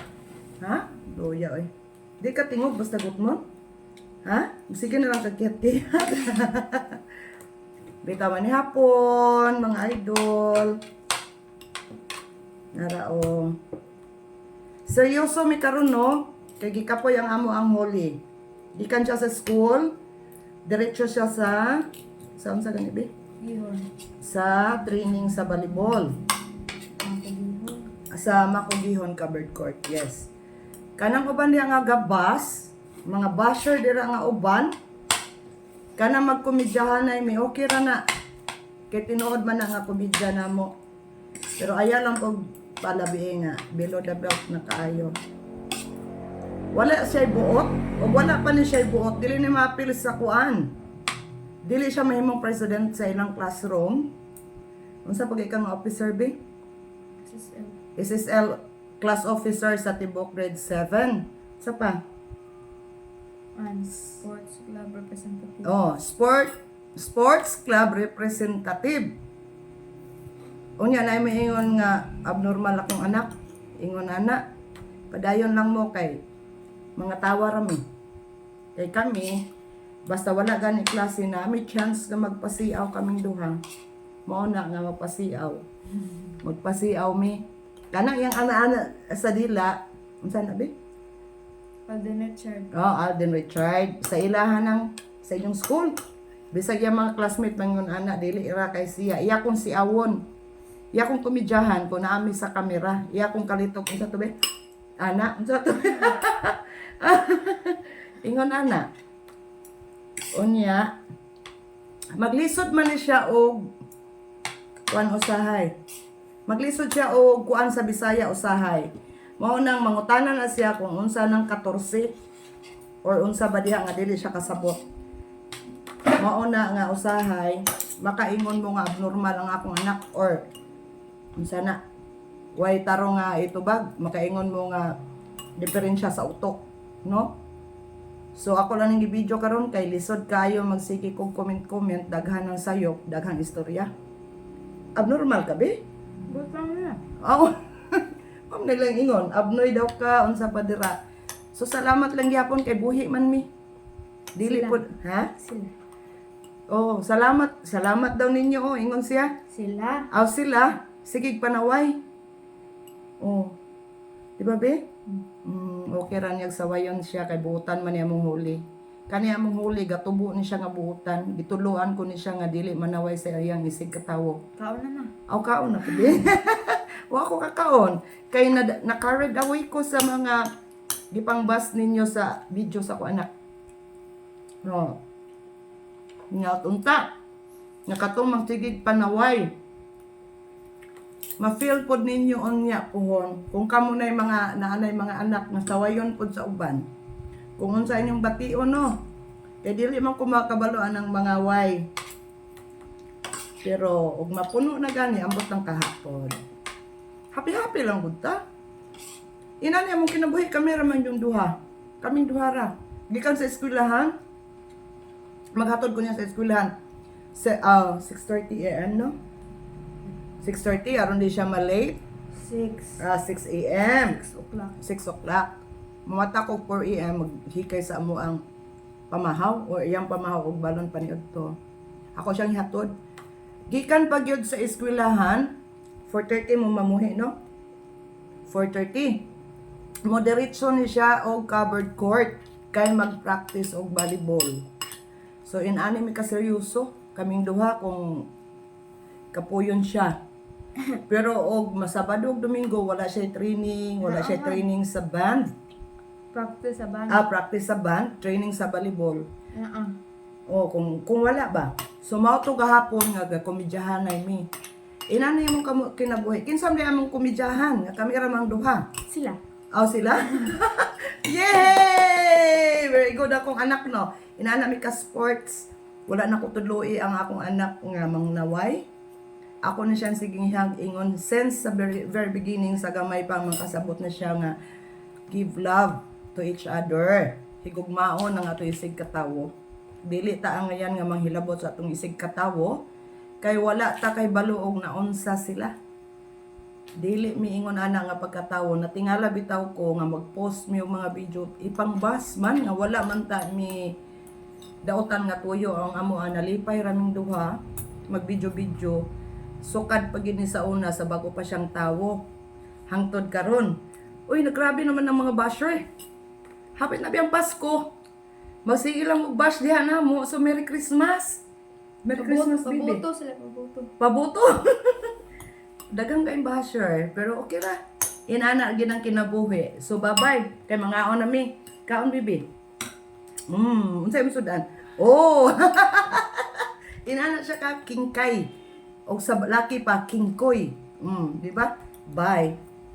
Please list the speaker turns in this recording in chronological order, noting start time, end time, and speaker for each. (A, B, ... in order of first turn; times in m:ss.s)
0:00.6-0:01.7 A
0:02.2-0:03.4 A
0:04.2-0:07.0 A
0:08.0-0:10.8 A
0:12.7-0:13.6 A
0:14.8-0:18.2 A
0:18.8-0:19.9 A
0:20.6-0:21.8 A
0:22.4-0:23.1 A
0:23.4-0:23.9 B
0:24.2-0:26.2 A
0:27.0-0:27.9 B
0:28.1-0:30.3 A
0:31.0-0:34.7 A
0:36.0-0:38.0 A
0:38.9-0:40.7 A
0:41.6-0:45.2 A
0:46.7-0:50.7 A
0:51.6-0:54.1 A
0:55.0-0:56.4 A
0:57.2-0:57.8 B
0:58.0-1:02.0 A
1:03.5-1:05.8 B
1:05.6-1:09.1 A
1:10.8-1:14.4 A
1:15.1-1:16.2 A
1:17.0-1:17.8 A
1:18.8-1:19.4 A
1:20.1-1:23.6 A
1:24.2-1:25.6 A
1:26.4-1:30.7 A
1:31.9-1:32.7 B
1:32.7-1:36.0 A
1:36.5-1:40.2 A
1:40.9-1:44.3 A
1:45.0-1:48.9 A
1:50.3-1:50.9 A
1:52.2-1:53.7 A
1:54.9-1:55.7 A
1:56.5-2:02.1 A
2:03.0-2:04.8 A
2:06.2-2:10.5 A
2:11.4-2:11.8 A
2:12.6-2:14.9 A
2:15.6-2:17.3 A
2:18.3-2:23.9 A
2:24.9-2:25.8 A
2:26.3-2:27.0 B
2:27.2-2:31.0 A
2:31.5-2:33.5 A
2:34.4-2:35.3 A
2:34.4-2:34.8 B
2:35.4-2:35.7 B
2:36.7-2:39.3 A
2:39.5-2:40.1 B
2:40.1-2:42.0 A
2:43.2-2:43.6 A
2:44.4-2:44.8 A
2:45.4-2:54.4 A
2:54.6-2:55.1 B
2:55.3-3:00.4 A
3:01.1-3:03.3 A
3:04.6-3:05.0 A
3:06.3-3:07.0 A
3:07.9-3:09.5 A
3:11.4-3:16.8 A
3:17.6-3:18.9 A
3:19.6-3:21.9 A
3:23.6-3:26.4 A
3:27.3-3:28.4 A
3:29.6-3:34.2 A
3:35.5-3:36.7 A
3:37.3-3:39.1 A
3:40.4-3:42.0 A
3:42.3-3:43.0 B
3:43.0-3:44.2 A
3:43.8-3:44.8 B
3:44.8-3:45.5 A
3:46.1-3:48.4 A
3:49.1-3:51.5 A
3:52.2-3:52.9 A
3:53.7-3:55.5 A
3:56.1-3:57.3 A
3:58.5-3:59.2 A
4:00.0-4:04.6 A
4:05.4-4:08.3 A
4:09.3-4:10.2 A
4:11.1-4:15.5 A
4:14.0-4:14.6 B
4:16.3-4:17.2 B
4:17.1-4:19.3 A
4:19.5-4:20.0 B
4:20.5-4:24.5 A
4:25.1-4:28.9 A
4:29.1-4:29.4 B
4:29.7-4:38.9 A
4:39.6-4:44.6 A
4:45.3-4:49.5 A
4:50.0-4:52.8 A
4:53.4-4:55.7 A
4:57.0-5:03.9 A
5:04.8-5:07.6 A
5:08.1-5:09.0 A
5:09.6-5:12.2 A
5:12.9-5:13.8 A
5:14.3-5:15.8 A
5:16.8-5:17.9 A
5:18.6-5:21.4 A
5:22.0-5:23.0 A
5:22.2-5:23.9 B
5:24.0-5:25.1 A
5:25.9-5:27.8 A
5:28.3-5:32.5 A
5:33.5-5:38.5 A
5:39.1-5:42.6 A